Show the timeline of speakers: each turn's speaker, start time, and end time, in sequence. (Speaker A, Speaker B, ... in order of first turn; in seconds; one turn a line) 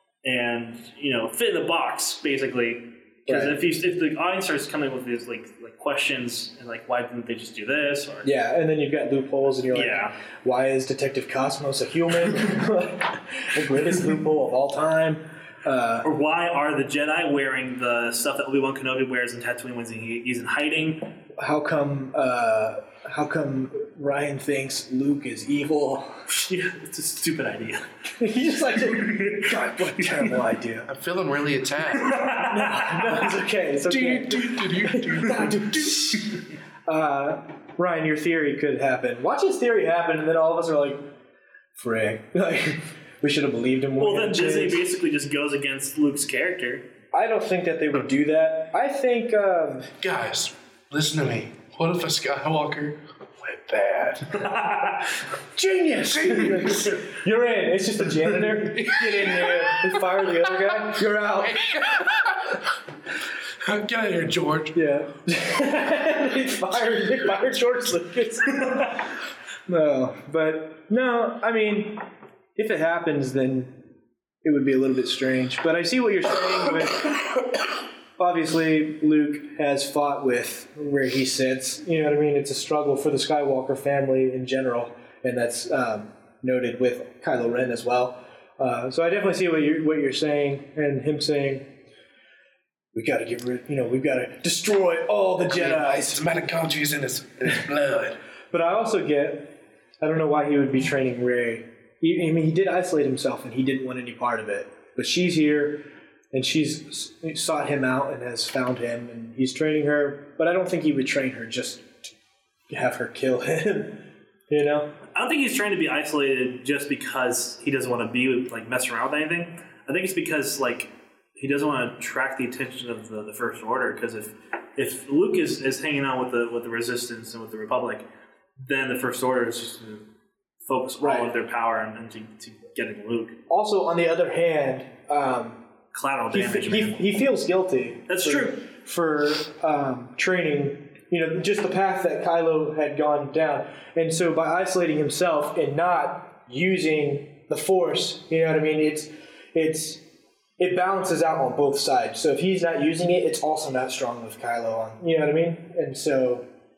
Speaker A: 0.2-8.3
Speaker B: 3.3-3.6
Speaker B: 8.2-16.1
Speaker A: 9.7-10.1
Speaker A: 16.0-21.1
Speaker B: 21.4-26.2
Speaker A: 26.3-27.9
Speaker B: 28.2-30.9
Speaker A: 28.9-30.4
Speaker C: 30.9-32.2
Speaker A: 31.9-33.2
Speaker B: 32.4-41.1
Speaker C: 33.8-35.9
Speaker B: 41.8-44.9
Speaker A: 44.0-46.9
Speaker B: 47.1-49.9
Speaker C: 50.0-54.4
Speaker A: 54.3-55.1
Speaker B: 55.5-61.9
Speaker C: 56.0-57.0
Speaker C: 58.6-62.6
Speaker C: 63.6-64.8
Speaker B: 64.7-69.1
Speaker B: 69.7-72.0
Speaker B: 72.5-73.8
Speaker B: 74.4-77.2
Speaker B: 78.2-91.7
Speaker B: 92.9-96.2
Speaker C: 95.5-98.2
Speaker B: 98.5-112.1
Speaker B: 112.7-114.9
Speaker A: 115.1-128.1
Speaker A: 128.6-130.1
Speaker A: 130.7-133.4
Speaker B: 131.0-131.3
Speaker B: 133.5-135.6
Speaker A: 135.9-137.0
Speaker B: 136.3-150.0
Speaker A: 138.1-138.6
Speaker B: 150.6-156.4